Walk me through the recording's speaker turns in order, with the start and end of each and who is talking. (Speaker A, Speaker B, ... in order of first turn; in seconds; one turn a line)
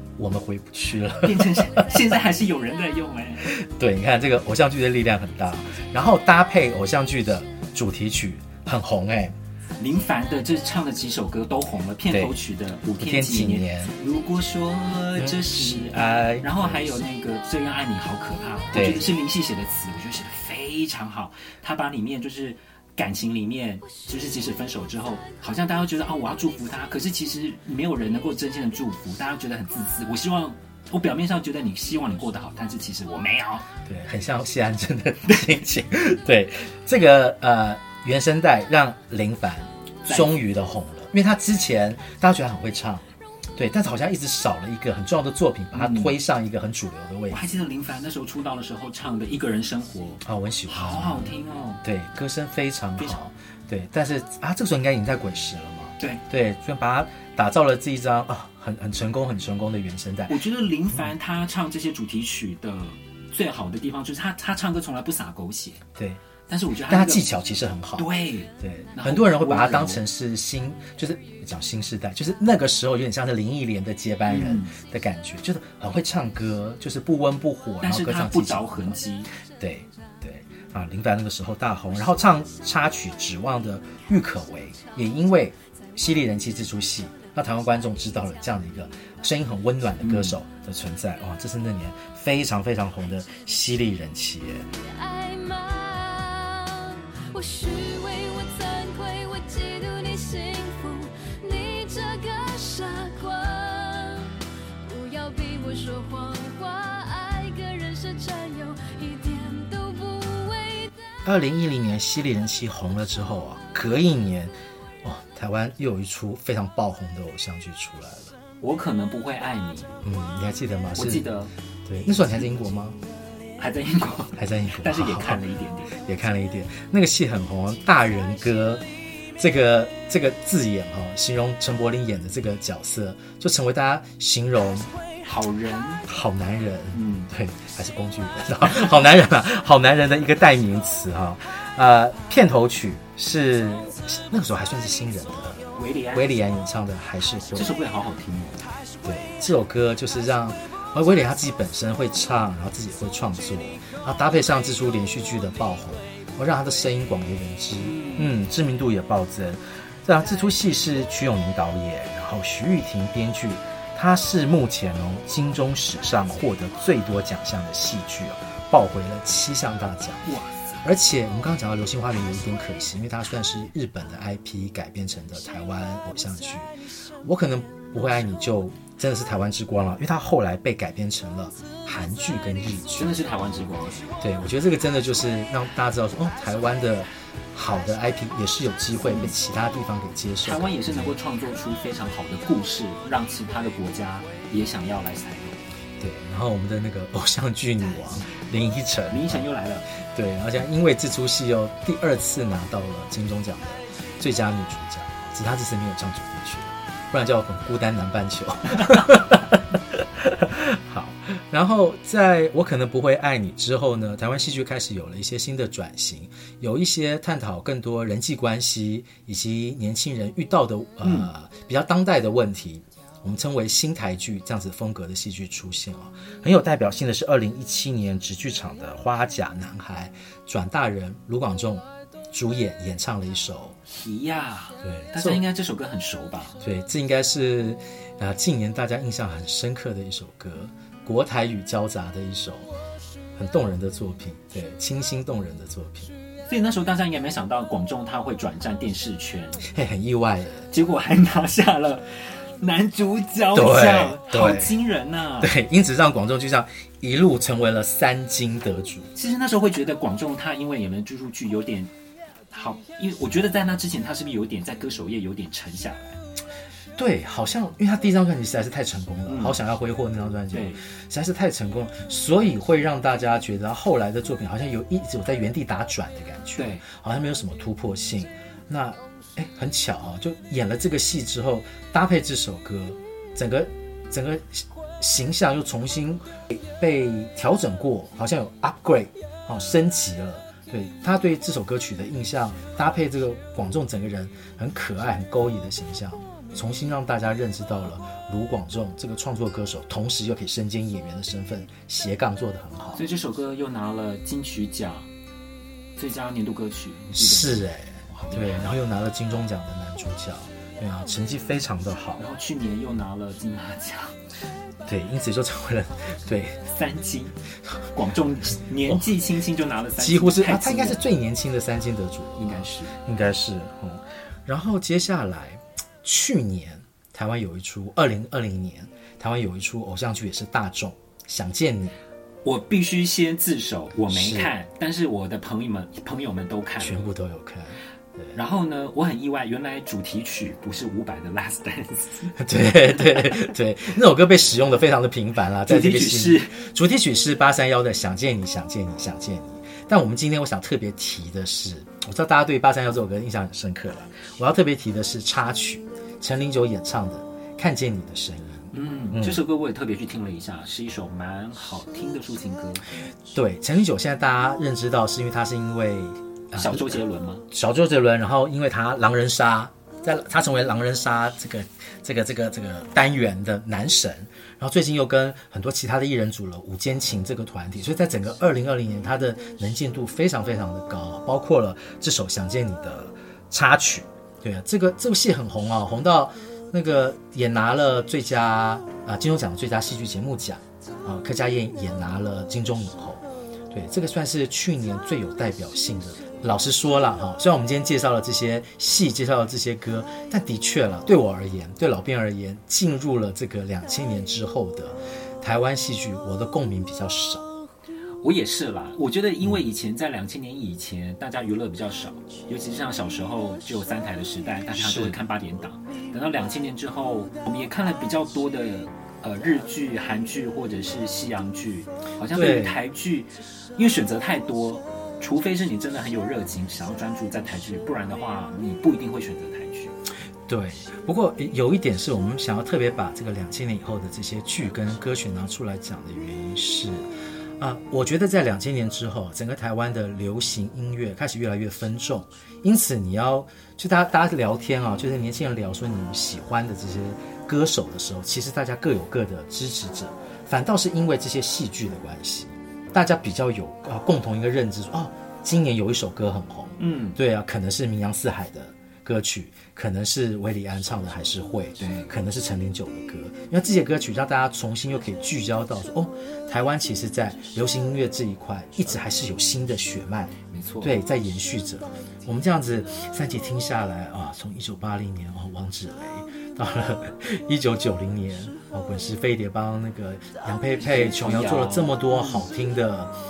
Speaker A: 0.2-1.9
Speaker B: 1.2-3.5
Speaker A: 3.4-9.3
Speaker B: 9.8-33.7
Speaker A: 12.1-12.4
Speaker A: 13.0-13.9
Speaker A: 15.2-16.8
Speaker A: 18.7-19.1
Speaker A: 33.9-43.0
Speaker B: 40.1-40.3
Speaker A: 43.6-47.4
Speaker B: 45.7-46.1
Speaker B: 47.3-51.8
Speaker A: 50.2-60.4
Speaker B: 60.3-65.8
Speaker B: 66.5-67.3
Speaker A: 66.9-79.0
Speaker B: 68.0-70.0
Speaker B: 74.3-74.7
Speaker B: 77.8-79.3
Speaker A: 79.6-94.7
Speaker B: 90.0-90.4
Speaker C: 94.7-111.0
Speaker A: 111.2-118.3
Speaker B: 118.6-119.9
Speaker A: 120.0-121.3
Speaker B: 121.0-121.5
Speaker A: 121.9-123.0
Speaker B: 123.6-126.0
Speaker A: 124.4-128.8
Speaker A: 129.4-134.9
Speaker B: 135.2-136.1
Speaker A: 136.1-147.7
Speaker B: 136.9-137.3
Speaker B: 145.8-146.3
Speaker B: 147.5-148.7
Speaker A: 149.0-170.3
Speaker B: 157.8-158.3
Speaker B: 170.2-170.6
Speaker A: 170.8-176.7
Speaker A: 177.2-183.2
Speaker B: 183.0-184.0
Speaker A: 184.2-191.2
Speaker B: 190.4-195.6
Speaker A: 196.0-233.8
Speaker B: 199.1-199.9
Speaker B: 221.0-221.3
Speaker B: 233.9-236.6
Speaker A: 234.8-235.4
Speaker A: 236.6-242.7
Speaker A: 243.4-246.1
Speaker B: 246.5-249.6
Speaker A: 249.6-250.7
Speaker B: 250.7-255.6
Speaker A: 253.5-254.7
Speaker A: 255.4-259.1
Speaker B: 259.1-261.9
Speaker B: 262.5-266.2
Speaker A: 267.0-303.0
Speaker B: 269.3-269.6
Speaker B: 270.5-270.8
Speaker B: 276.6-276.8
Speaker B: 302.9-305.1
Speaker B: 306.0-308.7
Speaker A: 307.1-312.2
Speaker B: 312.2-314.2
Speaker A: 314.9-316.6
Speaker B: 316.6-317.4
Speaker B: 317.9-321.0
Speaker A: 320.0-332.0
Speaker B: 322.4-323.0
Speaker B: 332.4-337.1
Speaker A: 334.1-334.5
Speaker A: 336.8-338.4
Speaker B: 338.3-342.3
Speaker A: 342.4-359.4
Speaker B: 345.7-346.5
Speaker B: 358.7-362.9
Speaker A: 363.3-407.4
Speaker B: 366.6-367.5
Speaker B: 408.2-430.0
Speaker A: 414.7-415.2
Speaker A: 422.3-422.8
Speaker A: 430.5-483.1
Speaker B: 456.8-457.2
Speaker B: 461.8-462.1
Speaker B: 470.5-470.9
Speaker B: 480.8-482.5